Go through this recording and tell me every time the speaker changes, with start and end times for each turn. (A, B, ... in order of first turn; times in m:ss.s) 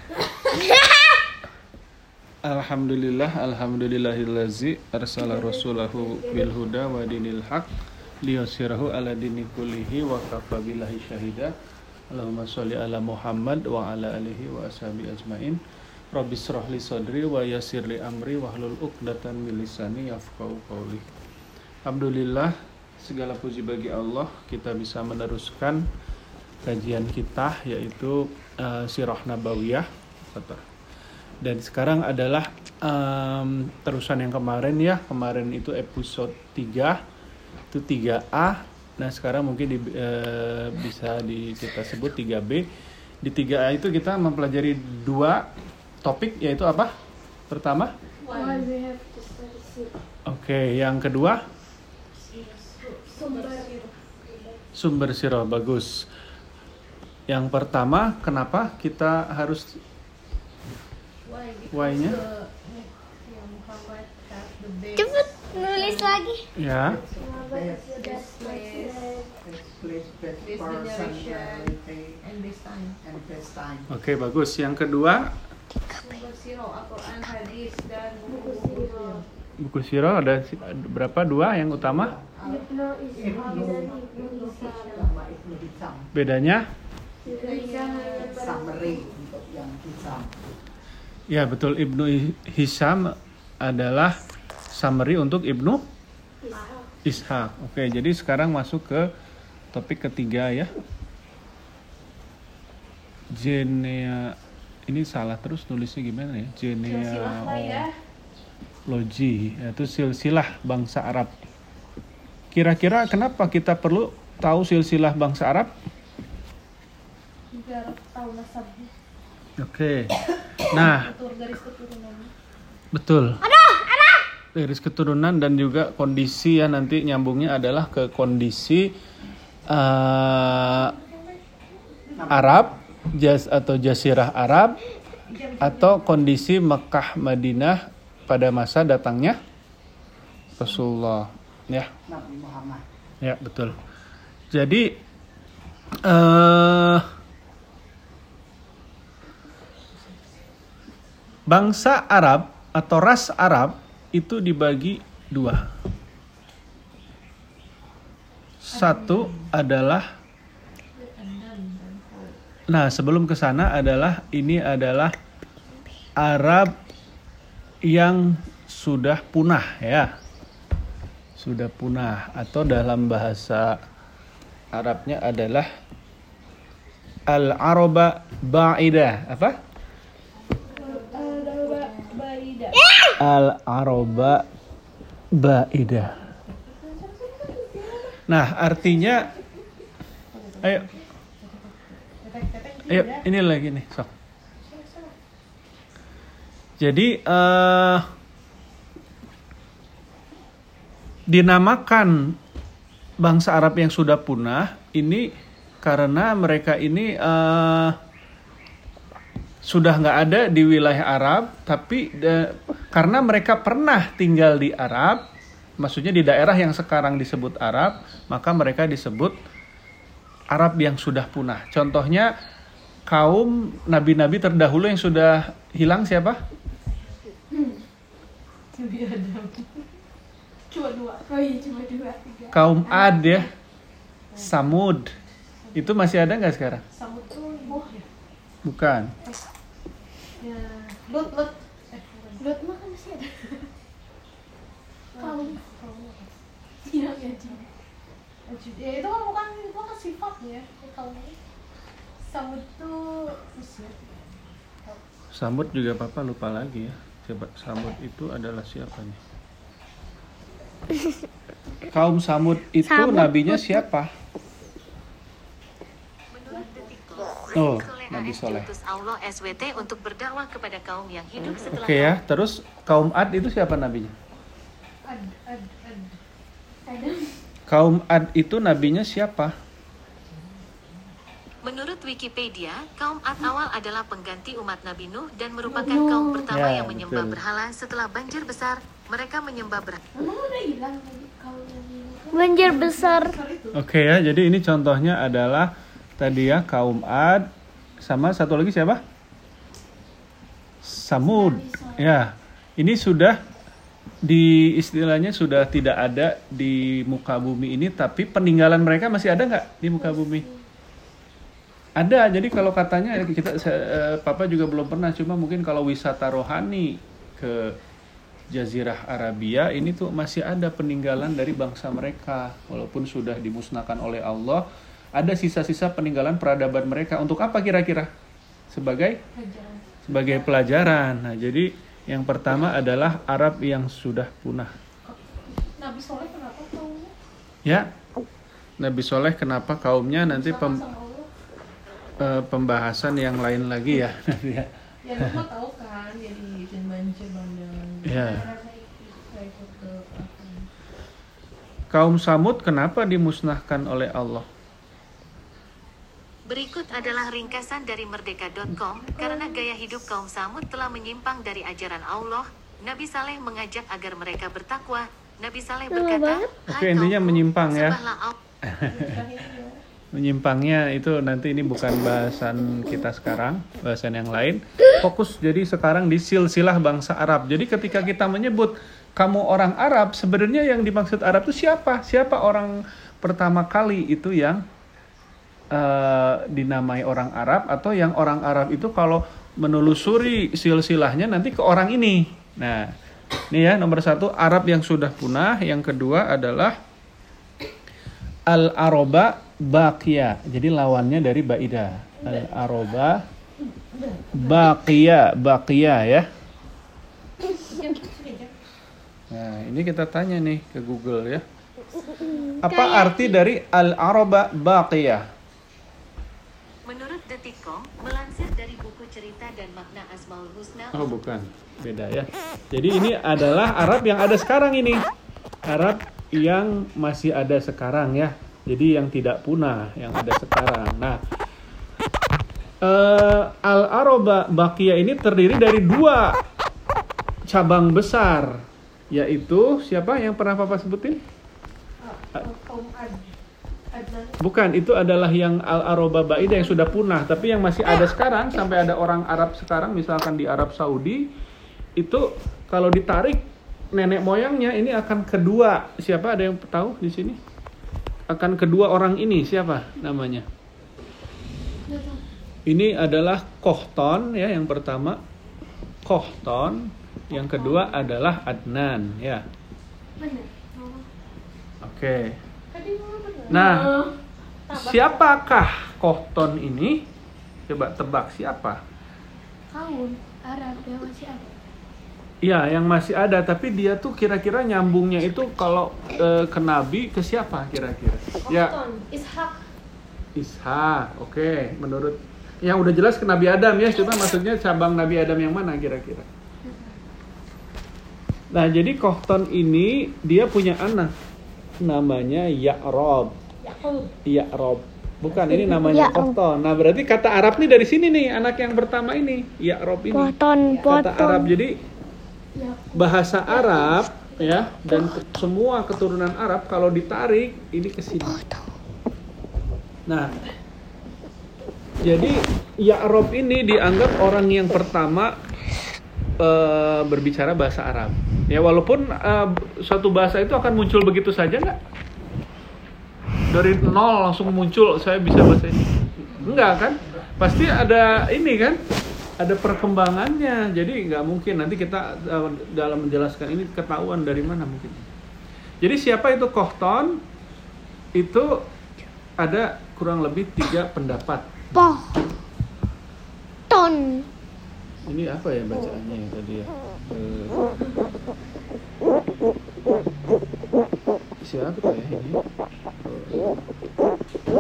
0:00.5-0:01.2 A
0:02.4-0:07.7 B
0:05.2-0:06.5 A
0:08.2-0:11.5 B
0:12.1-0:15.6 B
0:16.1-0:21.0 B
0:21.8-0:25.8 B
0:26.7-0:30.6 B
0:31.4-0:37.0 B
0:37.7-0:42.7 B
0:43.2-0:45.5 B
0:46.0-0:46.9 B
0:47.5-0:47.9 B
0:48.2-0:48.7 C
0:48.3-0:49.9 A
0:48.4-0:48.9 D
0:50.3-0:51.4 B
0:52.2-0:53.9 C
0:53.1-0:53.6 D
0:54.8-0:56.1 B
0:57.3-0:59.8 B
1:01.2-1:06.2 C
1:01.7-1:02.2 B
1:05.0-1:06.4 A
1:06.6-1:07.0 B
1:06.8-1:08.0 E
1:07.3-1:09.3 A
1:07.9-1:09.1 C
1:09.4-1:12.2 E
1:10.4-1:13.0 C
1:13.0-1:13.9 E
1:13.9-1:15.4 B
1:15.9-1:19.2 C
1:18.3-1:19.2 A
1:18.8-1:19.1 E
1:19.6-1:22.1 B
1:21.7-1:26.1 E
1:22.5-1:25.0 A
1:23.2-1:24.5 D
1:26.1-1:26.7 B
1:27.2-1:28.6 A
1:27.3-1:28.8 D
1:27.3-1:28.4 C
1:28.2-1:30.4 E
1:31.3-1:34.2 B
1:34.7-1:35.8 B
1:37.0-1:39.1 B
1:39.7-1:40.7 B
1:43.3-1:47.9 B
1:46.8-1:47.9 C
1:48.9-1:51.3 B
1:52.5-1:55.7 B
1:57.5-1:58.9 C
1:59.6-2:00.1 B
2:00.7-2:01.1 B
2:00.8-2:02.3 C
2:02.9-2:03.4 B
2:03.4-2:04.2 A
2:04.6-2:08.9 B
2:09.7-2:10.9 B
2:10.4-2:11.4 C
2:12.1-2:12.8 E
2:12.3-2:14.8 B
2:15.3-2:16.4 C
2:15.6-2:19.4 B
2:20.6-2:21.9 B
2:22.1-2:22.8 E
2:23.2-2:23.8 B
2:24.5-2:25.0 B
2:26.0-2:27.1 B
2:31.5-2:35.7 B
2:38.6-2:40.1 B
2:38.7-2:39.4 C
2:41.0-2:42.4 C
2:42.7-2:45.2 B
2:46.2-2:46.7 B
2:47.8-2:50.1 B
2:51.4-2:53.8 B
2:54.7-2:55.7 B
2:57.3-2:59.6 B
3:00.7-3:02.8 C
3:00.8-3:02.1 D
3:03.2-3:04.5 B
3:05.4-3:06.3 B
3:06.5-3:08.2 C
3:08.3-3:09.3 B
3:08.7-3:09.6 C
3:10.3-3:13.3 C
3:10.6-3:10.9 B
3:12.9-3:14.1 B
3:14.6-3:15.1 C
3:16.8-3:18.1 B
3:21.3-3:22.4 B
3:23.2-3:25.3 B
3:25.8-3:28.0 B
3:29.6-3:35.2 B
3:35.8-3:39.4 B
3:40.5-3:42.3 B
3:43.1-3:46.4 B
3:48.7-3:49.9 C
3:50.7-3:53.5 D
3:52.5-3:53.5 B
3:54.4-3:55.2 B
3:55.6-3:55.9 C
3:55.7-3:56.8 B
3:56.9-3:58.1 C
3:57.6-3:57.9 D
3:58.6-3:59.1 B
4:00.4-4:02.6 C
4:02.4-4:03.6 D
4:05.1-4:07.7 C
4:05.2-4:05.6 D
4:06.8-4:07.6 D
4:08.5-4:11.4 C
4:12.2-4:15.0 C
4:15.3-4:19.2 B
4:21.9-4:24.1 B
4:22.8-4:23.8 A
4:26.3-4:32.2 F
4:26.5-4:26.9 C
4:27.5-4:28.7 B
4:31.6-4:34.1 B
4:35.0-4:36.2 C
4:36.9-4:37.4 D
4:37.7-4:39.5 B
4:41.6-4:50.0 F
4:45.8-4:46.4 D
4:45.8-4:46.4 A
4:46.5-4:47.4 B
4:50.2-4:52.9 D
4:52.3-4:53.3 A
4:52.6-4:53.8 C
4:53.7-4:57.5 B
4:58.0-4:59.0 B
5:00.8-5:03.4 B
5:01.2-5:02.1 D
5:04.2-5:10.5 B
5:10.0-5:10.6 D
5:12.0-5:17.8 B
5:18.5-5:24.6 B
5:25.2-5:28.1 B
5:28.7-5:29.2 B
5:29.3-5:30.5 C
5:30.1-5:34.7 B
5:35.0-5:37.1 C
5:38.8-5:40.8 B
5:40.2-5:41.3 C
5:42.2-5:45.4 B
5:45.0-5:50.7 C
5:48.0-5:48.5 B
5:48.1-5:49.0 D
5:51.9-5:54.5 B
5:56.5-6:08.4 F
6:05.9-6:06.5 A
6:06.7-6:08.0 B
6:08.6-6:09.2 B
6:08.9-6:09.8 C
6:10.1-6:24.6 B
6:25.7-6:32.9 B
6:33.5-6:36.8 B
6:38.5-6:43.2 B
6:44.3-6:46.3 B
6:47.4-6:48.5 C
6:49.3-6:51.4 B
6:52.1-6:52.5 C
6:52.6-6:55.2 B
6:52.7-6:53.4 A
6:56.9-7:01.1 F
7:00.9-7:05.0 B
7:05.7-7:11.2 B
7:12.8-7:16.4 B
7:17.5-7:21.2 B
7:22.0-7:23.3 C
7:23.9-7:24.4 C
7:24.4-7:31.3 B
7:32.0-7:37.4 B
7:38.3-7:40.5 B
7:41.9-7:42.2 D
7:42.7-7:45.2 B
7:46.0-7:49.4 B
7:47.6-7:47.9 C
7:50.2-7:51.0 D
7:51.8-7:52.4 B
7:52.7-7:53.7 C
7:53.5-7:53.9 B
7:53.5-7:54.2 D
7:54.7-7:55.6 C
7:54.7-7:57.0 B
7:57.7-7:58.8 B
7:59.7-8:01.6 D
8:02.4-8:08.8 B
8:08.5-8:09.6 D
8:10.4-8:16.3 B
8:18.5-8:21.1 B
8:21.8-8:23.4 B
8:23.7-8:24.1 D
8:24.3-8:31.8 B
8:25.9-8:26.3 A
8:30.1-8:31.6 A
8:32.6-8:34.6 D
8:32.9-8:38.4 B
8:38.3-8:38.6 A
8:40.1-8:40.3 B
8:42.0-8:45.4 B
8:46.4-8:51.8 B
8:53.5-8:58.8 B
8:56.4-8:57.2 E
8:59.4-9:05.1 B
9:05.8-9:07.2 B
9:08.2-9:08.6 B
9:09.4-9:12.0 B
9:11.8-9:12.1 A
9:13.7-9:14.3 A
9:15.1-9:17.7 B
9:21.4-9:22.4 B
9:23.0-9:23.6 B